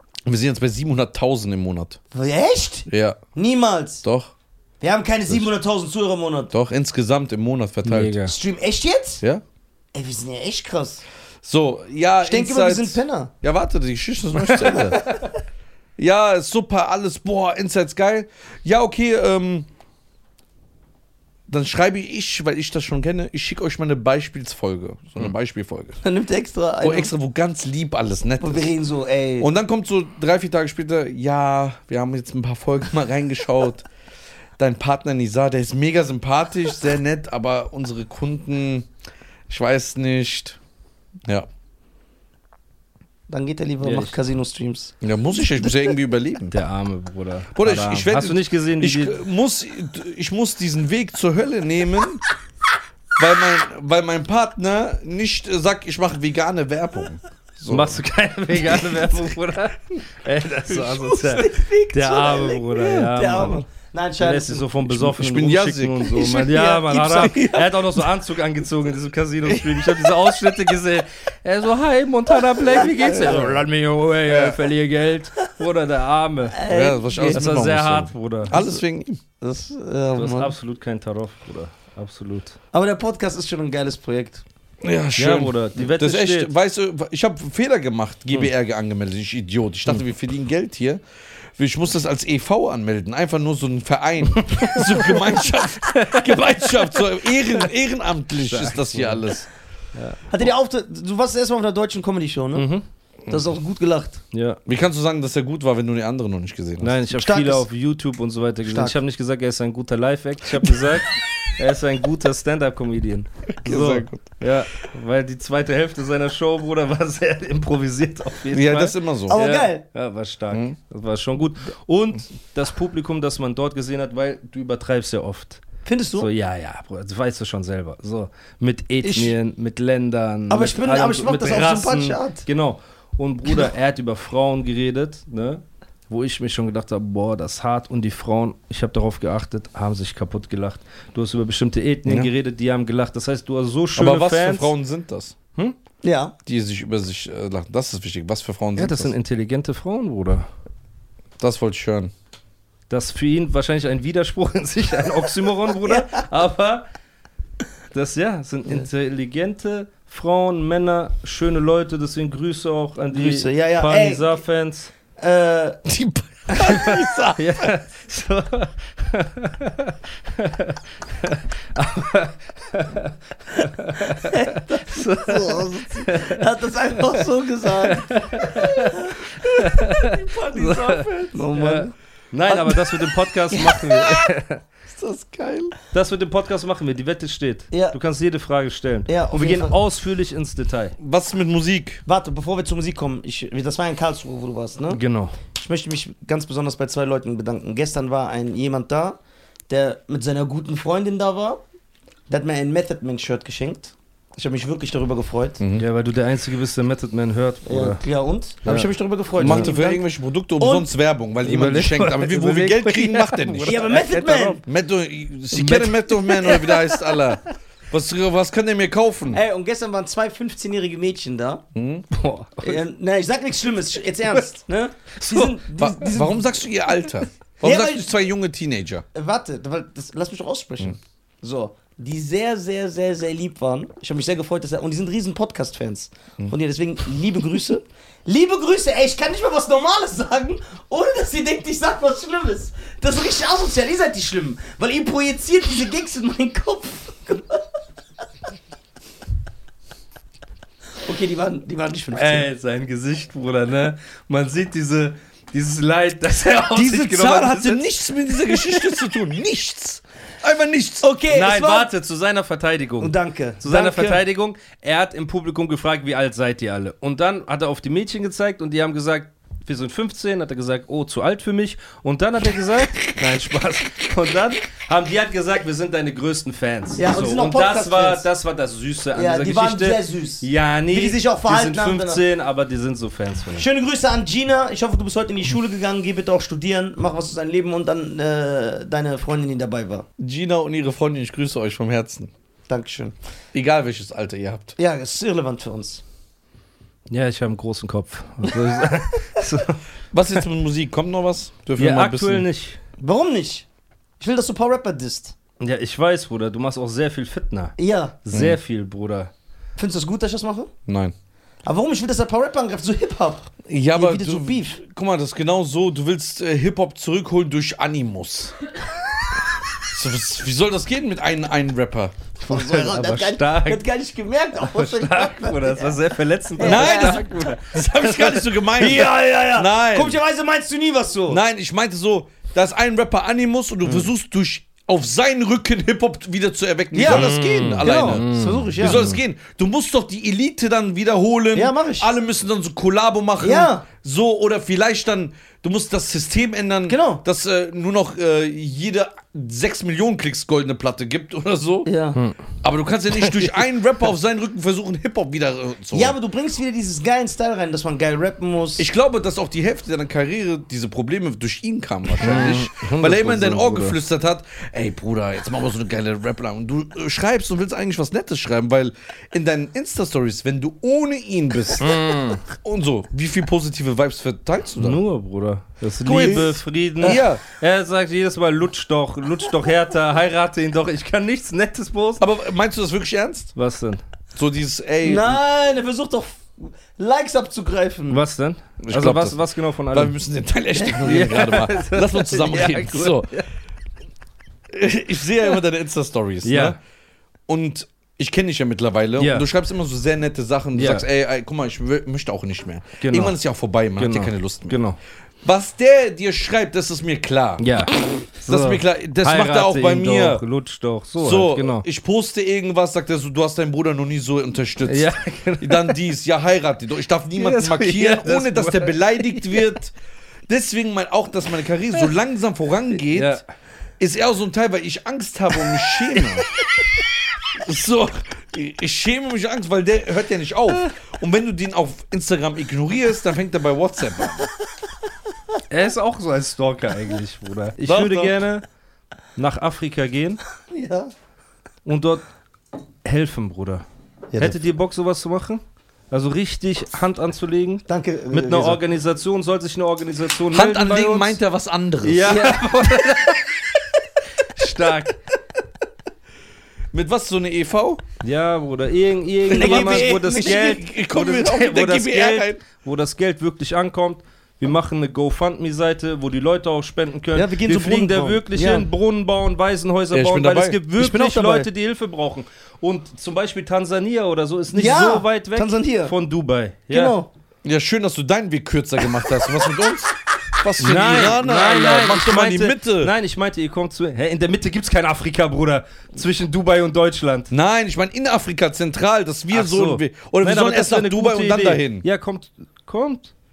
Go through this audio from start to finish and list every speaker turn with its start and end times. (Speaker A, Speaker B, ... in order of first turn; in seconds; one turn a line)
Speaker A: 0.3-2.0
Speaker B: 2.1-4.0
Speaker A: 2.9-3.2
Speaker A: 4.0-4.3
Speaker B: 4.8-6.5
Speaker A: 6.5-8.2
Speaker C: 7.8-8.3
Speaker B: 8.2-9.2
Speaker B: 9.9-11.0
Speaker A: 11.4-15.1
Speaker B: 12.2-13.3
Speaker C: 14.5-14.8
Speaker B: 14.8-15.2
Speaker A: 16.0-19.7
Speaker A: 21.5-26.0
Speaker B: 26.0-27.1
Speaker A: 26.8-28.7
Speaker B: 28.4-29.5
Speaker A: 29.4-33.9
Speaker A: 34.6-38.9
Speaker A: 39.5-40.6
Speaker B: 43.3-45.0
Speaker C: 43.8-44.1
Speaker A: 45.0-46.6
Speaker C: 46.5-49.2
Speaker A: 47.5-52.2
Speaker A: 53.2-58.0
Speaker C: 57.7-63.6
Speaker B: 61.1-64.7
Speaker C: 64.2-76.6
Speaker A: 64.9-66.3
Speaker B: 66.1-67.5
Speaker A: 67.0-67.6
Speaker B: 72.6-74.5
Speaker B: 76.5-77.4
Speaker A: 76.7-79.2
Speaker C: 77.2-78.6
Speaker B: 78.5-78.8
Speaker B: 79.4-80.5
Speaker C: 80.1-82.6
Speaker B: 82.7-84.5
Speaker A: 84.8-91.0
Speaker C: 85.2-86.5
Speaker A: 91.6-99.5
Speaker C: 94.4-96.8
Speaker C: 98.4-99.3
Speaker C: 99.9-100.2
Speaker B: 100.3-102.7
Speaker C: 102.5-102.8
Speaker B: 103.3-104.2
Speaker C: 104.3-104.6
Speaker A: 104.7-107.0
Speaker C: 106.8-125.6
Speaker B: 107.1-107.6
Speaker B: 108.6-109.0
Speaker A: 113.6-114.3
Speaker A: 118.5-119.4
Speaker B: 119.3-119.8
Speaker B: 125.9-126.3
Speaker C: 126.2-144.7
Speaker B: 129.0-129.3
Speaker B: 130.5-132.4
Speaker A: 144.0-145.4
Speaker B: 146.0-146.3
Speaker A: 146.5-149.1
Speaker C: 148.8-150.5
Speaker A: 151.4-152.1
Speaker C: 152.9-156.8
Speaker B: 155.9-156.2
Speaker C: 157.9-164.9
Speaker B: 163.1-164.4
Speaker B: 165.2-165.9
Speaker A: 165.9-167.4
Speaker B: 166.5-167.3
Speaker C: 166.6-176.4
Speaker B: 174.1-181.9
Speaker C: 177.7-184.6
Speaker B: 182.5-184.3
Speaker B: 184.9-185.8
Speaker C: 185.9-191.0
Speaker B: 187.7-188.0
Speaker B: 189.1-189.8
Speaker A: 191.0-192.0
Speaker B: 192.1-195.0
Speaker C: 194.9-195.4
Speaker B: 195.6-201.6
Speaker B: 202.3-205.6
Speaker A: 205.6-205.8
Speaker C: 205.8-208.0
Speaker B: 207.7-210.1
Speaker C: 208.6-209.7
Speaker A: 209.4-219.4
Speaker B: 210.6-210.9
Speaker C: 211.4-214.1
Speaker B: 213.6-214.6
Speaker C: 215.5-217.4
Speaker B: 219.3-221.6
Speaker A: 221.8-222.1
Speaker C: 222.1-222.8
Speaker B: 222.6-226.6
Speaker C: 225.2-225.6
Speaker A: 225.8-229.1
Speaker B: 227.6-228.1
Speaker B: 229.1-247.6
Speaker B: 251.0-252.5
Speaker C: 252.1-258.0
Speaker A: 256.7-261.1
Speaker B: 261.0-261.9
Speaker C: 261.3-283.7
Speaker B: 263.0-264.2
Speaker B: 277.0-278.3
Speaker B: 279.1-282.2
Speaker B: 283.5-290.1
Speaker A: 290.2-292.3
Speaker B: 292.7-293.1
Speaker A: 293.5-294.8
Speaker B: 294.8-296.0
Speaker C: 297.1-299.8
Speaker B: 298.5-298.8
Speaker A: 300.1-302.5
Speaker C: 301.8-302.8
Speaker B: 303.0-303.7
Speaker B: 304.2-305.4
Speaker C: 305.6-309.3
Speaker B: 307.8-308.2
Speaker A: 308.3-308.6
Speaker B: 309.8-310.7
Speaker A: 310.9-311.1
Speaker B: 311.6-314.8
Speaker A: 313.7-318.6
Speaker A: 319.8-322.1
Speaker B: 322.4-326.0
Speaker C: 322.5-323.8
Speaker C: 324.6-328.5
Speaker B: 326.6-327.5
Speaker A: 326.6-330.2
Speaker B: 328.8-331.4
Speaker A: 331.3-351.9
Speaker B: 336.9-339.1
Speaker C: 337.0-339.2
Speaker B: 341.6-342.1
Speaker B: 343.4-343.9
Speaker B: 346.9-347.2
Speaker B: 351.9-352.2
Speaker A: 352.6-356.2
Speaker B: 355.9-358.9
Speaker A: 358.8-375.0
Speaker C: 362.2-364.0
Speaker C: 371.8-372.4
Speaker C: 374.8-382.2
Speaker A: 376.0-377.4
Speaker B: 376.2-376.5
Speaker A: 382.2-383.5
Speaker C: 383.6-384.0
Speaker A: 384.4-385.4
Speaker B: 385.0-388.2
Speaker C: 388.1-390.1
Speaker A: 388.8-389.4
Speaker A: 389.9-393.3
Speaker C: 391.0-393.5
Speaker A: 394.7-396.8
Speaker C: 396.4-396.8
Speaker A: 397.5-404.8
Speaker C: 399.2-399.5
Speaker C: 400.8-401.1
Speaker C: 403.0-403.4
Speaker C: 404.0-405.0
Speaker A: 405.4-407.7
Speaker C: 407.6-411.9
Speaker A: 408.5-410.4
Speaker A: 411.2-419.9
Speaker C: 414.9-416.0
Speaker C: 417.4-419.7
Speaker A: 420.5-423.4
Speaker C: 423.1-423.4
Speaker A: 424.0-426.5
Speaker A: 427.6-434.5
Speaker C: 435.7-438.6
Speaker A: 437.9-438.4
Speaker C: 439.4-440.4
Speaker B: 440.7-441.1
Speaker C: 441.9-442.2
Speaker C: 443.1-443.9
Speaker B: 444.3-444.6
Speaker C: 444.4-451.4
Speaker B: 447.9-448.8
Speaker A: 450.5-452.4
Speaker C: 452.0-453.8
Speaker B: 452.2-452.7
Speaker C: 454.4-455.2
Speaker A: 456.9-458.0
Speaker C: 458.2-477.2
Speaker B: 459.5-460.8
Speaker A: 459.5-462.6
Speaker B: 467.3-468.9
Speaker A: 470.1-470.8
Speaker B: 471.0-471.7
Speaker B: 474.7-476.1
Speaker B: 476.9-477.3
Speaker A: 477.6-483.1
Speaker C: 480.8-487.5
Speaker A: 487.5-492.1
Speaker C: 489.5-493.3